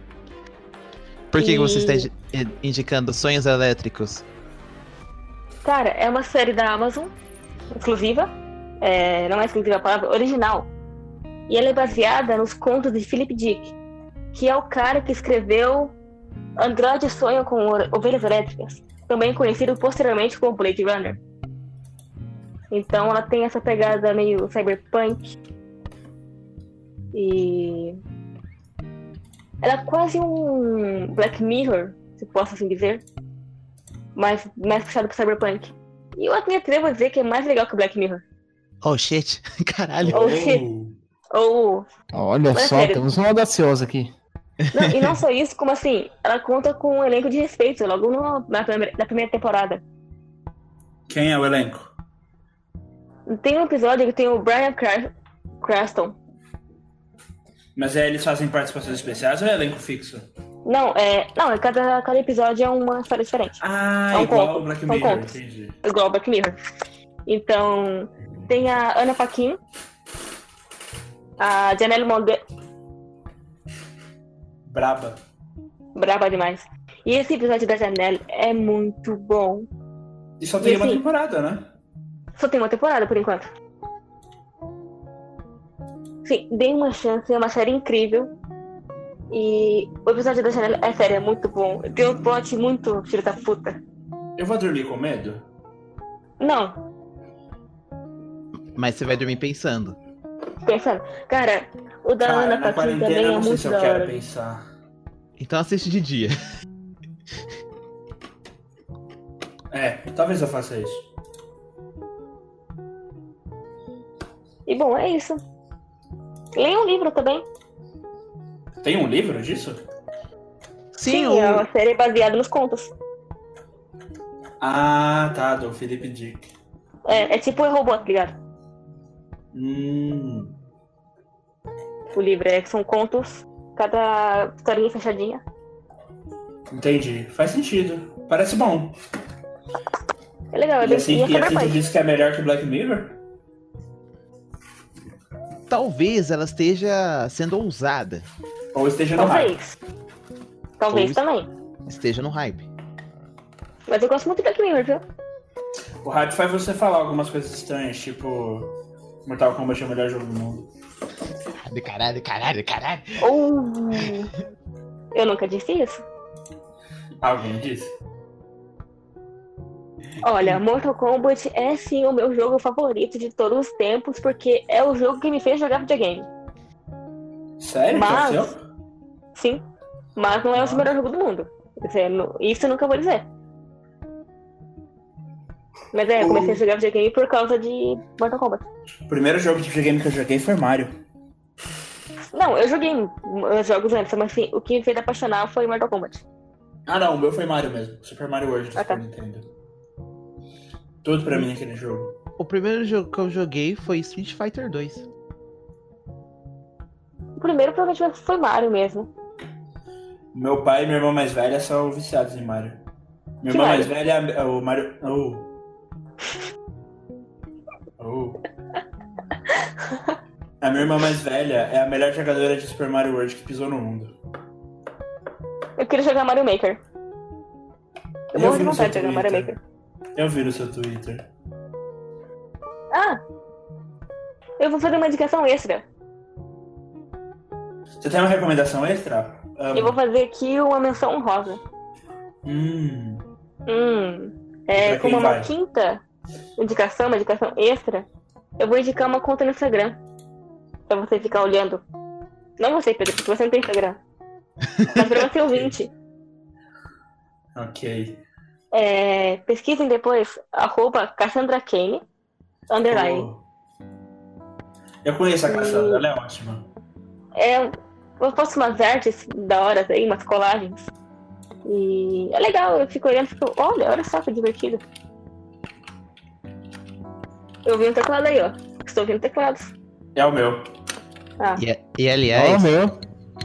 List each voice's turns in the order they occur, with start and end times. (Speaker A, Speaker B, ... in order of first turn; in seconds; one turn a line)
Speaker A: 1.3-4.2
Speaker B: 1.4-2.1
Speaker B: 5.6-7.1
Speaker B: 7.7-10.7
Speaker B: 11.5-13.7
Speaker B: 14.3-15.9
Speaker B: 16.6-21.2
Speaker B: 22.7-25.3
Speaker B: 27.1-28.0
Speaker B: 29.6-33.0
Speaker B: 34.1-38.2
Speaker A: 38.8-40.3
Speaker C: 40.0-40.9
Speaker B: 40.1-40.6
Speaker B: 41.3-41.8
Speaker D: 42.1-44.1
Speaker B: 42.5-43.0
Speaker A: 44.6-45.2
Speaker B: 44.7-49.8
Speaker C: 51.1-51.9
Speaker B: 53.3-56.2
Speaker C: 57.8-60.3
Speaker B: 60.6-63.6
Speaker C: 63.6-65.8
Speaker B: 64.1-66.5
Speaker B: 67.2-69.6
Speaker B: 71.4-72.4
Speaker C: 74.7-75.2
Speaker B: 76.0-79.7
Speaker C: 80.4-81.7
Speaker B: 80.6-81.0
Speaker B: 82.4-83.5
Speaker B: 86.2-88.3
Speaker B: 89.3-93.8
Speaker C: 94.4-95.4
Speaker B: 96.4-96.8
Speaker A: 98.7-100.0
Speaker B: 100.6-104.1
Speaker C: 102.2-104.6
Speaker A: 105.4-106.3
Speaker C: 109.7-111.0
Speaker B: 114.7-115.4
Speaker B: 116.5-117.4
Speaker C: 118.8-119.8
Speaker A: 120.9-121.7
Speaker B: 121.0-122.9
Speaker C: 124.6-126.5
Speaker B: 127.0-128.4
Speaker C: 129.5-130.5
Speaker B: 132.1-135.4
Speaker C: 136.7-138.9
Speaker B: 140.5-141.8
Speaker C: 140.8-143.2
Speaker A: 145.7-148.2
Speaker C: 148.7-149.5
Speaker B: 149.2-149.7
Speaker B: 150.8-151.5
Speaker A: 150.9-151.2
Speaker A: 151.8-152.7
Speaker B: 153.9-155.0
Speaker C: 156.0-158.7
Speaker C: 159.2-160.7
Speaker A: 161.7-163.2
Speaker B: 163.2-164.3
Speaker B: 165.1-166.0
Speaker C: 167.2-167.9
Speaker B: 170.2-176.3
Speaker C: 177.6-178.6
Speaker B: 177.9-178.5
Speaker B: 179.3-179.6
Speaker B: 180.2-183.3
Speaker C: 180.5-180.9
Speaker B: 185.9-188.6
Speaker C: 186.2-186.6
Speaker C: 189.1-190.9
Speaker B: 192.3-196.2
Speaker C: 196.9-199.4
Speaker C: 201.0-202.1
Speaker A: 202.4-205.1
Speaker B: 207.4-209.1
Speaker C: 210.3-212.8
Speaker C: 213.4-215.5
Speaker B: 213.5-213.9
Speaker C: 218.0-218.4
Speaker B: 219.8-220.1
Speaker C: 220.6-224.1
Speaker B: 225.8-226.8
Speaker B: 228.3-229.6
Speaker C: 228.3-229.5
Speaker C: 230.2-231.2
Speaker B: 232.9-233.2
Speaker B: 234.6-235.8
Speaker C: 238.0-240.0
Speaker B: 239.7-241.6
Speaker C: 242.4-243.2
Speaker B: 243.7-246.0
Speaker C: 244.7-245.5
Speaker B: 246.6-248.1
Speaker B: 248.6-250.0
Speaker B: 250.9-251.8
Speaker B: 252.6-254.0
Speaker B: 254.9-255.9
Speaker C: 255.3-255.7
Speaker C: 257.5-258.2
Speaker B: 258.7-262.0
Speaker B: 262.7-263.3
Speaker C: 262.9-263.4
Speaker C: 265.0-266.6
Speaker B: 265.5-266.0
Speaker B: 267.3-270.9
Speaker B: 271.6-274.8
Speaker B: 277.6-279.7
Speaker C: 280.1-280.7
Speaker A: 281.6-282.7
Speaker D: 282.3-283.0